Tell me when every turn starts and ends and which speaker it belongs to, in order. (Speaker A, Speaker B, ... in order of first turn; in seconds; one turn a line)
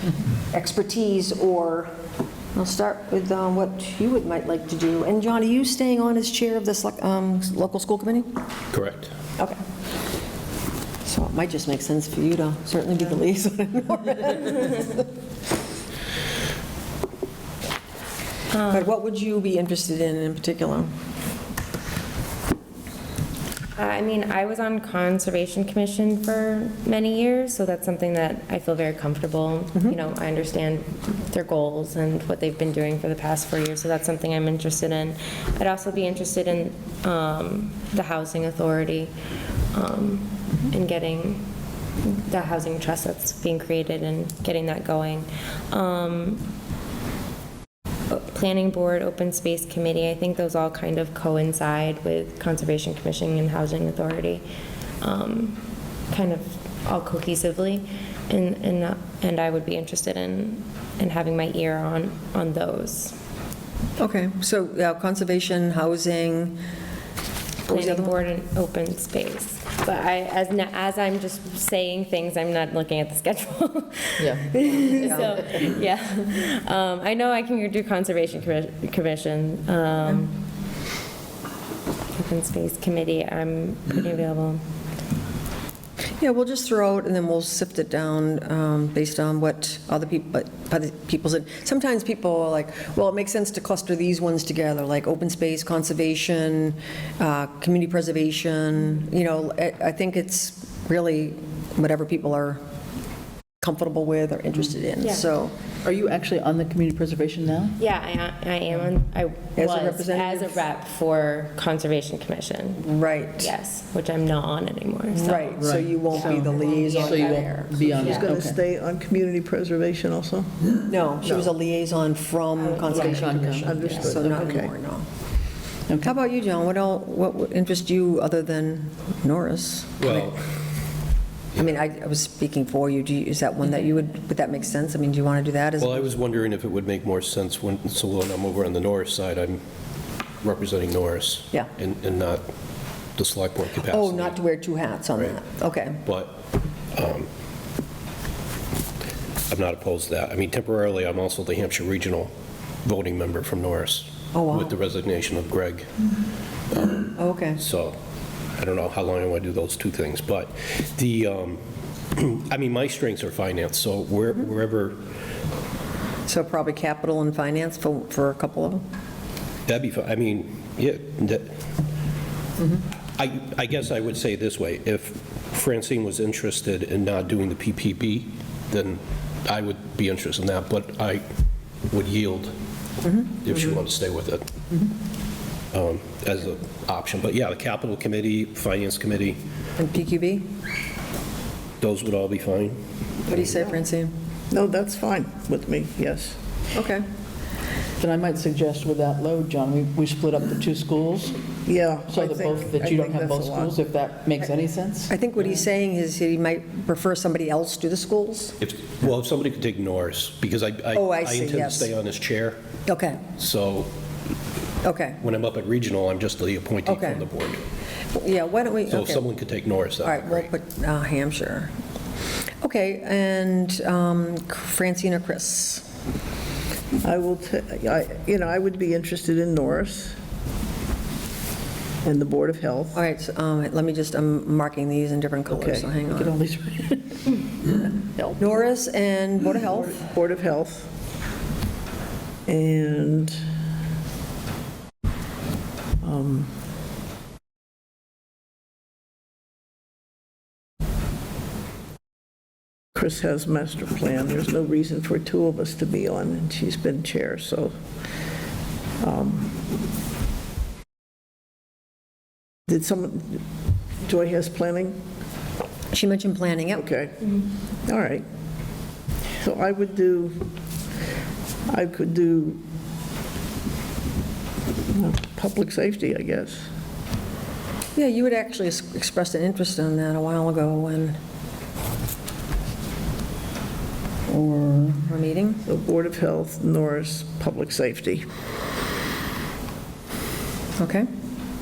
Speaker A: 0.5-1.9
Speaker A: 2.5-8.3
Speaker B: 8.7-9.1
Speaker A: 11.0-15.1
Speaker A: 18.7-20.9
Speaker C: 23.8-39.1
Speaker C: 39.7-41.4
Speaker C: 42.0-46.5
Speaker C: 48.1-54.4
Speaker C: 55.0-55.6
Speaker C: 56.1-63.1
Speaker A: 64.0-66.6
Speaker A: 67.7-68.2
Speaker C: 67.7-74.0
Speaker D: 74.2-75.7
Speaker C: 74.5-80.3
Speaker A: 74.8-75.5
Speaker C: 82.2-84.6
Speaker A: 86.2-102.6
Speaker A: 103.6-105.6
Speaker D: 105.8-107.8
Speaker C: 107.8-112.8
Speaker A: 109.5-110.7
Speaker A: 112.8-113.5
Speaker C: 113.4-115.1
Speaker D: 115.1-118.6
Speaker A: 115.2-118.1
Speaker C: 116.2-117.3
Speaker B: 117.6-118.0
Speaker E: 118.0-120.6
Speaker A: 120.9-125.1
Speaker E: 121.2-121.5
Speaker D: 122.8-124.1
Speaker E: 123.5-124.7
Speaker D: 125.9-126.2
Speaker A: 126.0-130.3
Speaker B: 130.0-130.4
Speaker A: 131.6-136.1
Speaker B: 135.8-139.6
Speaker B: 140.4-142.4
Speaker B: 143.2-144.4
Speaker A: 143.8-146.0
Speaker B: 146.0-146.4
Speaker B: 146.9-147.3
Speaker B: 149.5-152.3
Speaker B: 152.8-155.9
Speaker A: 154.3-154.7
Speaker B: 156.7-158.0
Speaker A: 157.2-157.6
Speaker B: 158.6-161.6
Speaker B: 162.1-165.0
Speaker A: 166.3-168.8
Speaker B: 169.7-171.6
Speaker B: 173.2-181.2
Speaker B: 181.9-182.5
Speaker A: 183.0-183.4
Speaker B: 183.4-184.5
Speaker B: 185.7-189.4
Speaker A: 189.8-190.5
Speaker B: 191.8-192.8
Speaker A: 193.3-194.1
Speaker E: 194.5-196.4
Speaker A: 196.7-197.1
Speaker D: 198.0-201.4
Speaker E: 201.7-203.7
Speaker D: 202.1-205.6
Speaker A: 205.1-208.5
Speaker B: 208.6-212.6
Speaker A: 210.9-211.9
Speaker A: 212.8-213.2
Speaker B: 213.3-213.9
Speaker A: 214.8-215.2
Speaker B: 215.2-217.6
Speaker A: 216.8-217.3
Speaker A: 218.1-219.2
Speaker B: 218.9-220.5
Speaker A: 220.0-221.7
Speaker A: 222.6-225.8
Speaker E: 227.0-230.2
Speaker E: 232.0-233.0
Speaker A: 232.9-236.3
Speaker E: 235.5-235.9
Speaker D: 236.1-237.0
Speaker A: 238.4-240.0
Speaker E: 239.7-240.9
Speaker E: 242.5-243.4
Speaker E: 246.0-246.5
Speaker E: 252.9-257.7
Speaker E: 259.0-259.6
Speaker E: 262.7-263.4
Speaker E: 264.0-265.0
Speaker A: 265.9-266.9
Speaker E: 266.8-268.2
Speaker E: 269.4-270.5
Speaker E: 271.7-272.6
Speaker E: 274.9-276.7
Speaker A: 277.9-281.2
Speaker D: 284.3-284.8
Speaker A: 284.4-285.6
Speaker E: 285.6-288.2
Speaker A: 290.8-291.1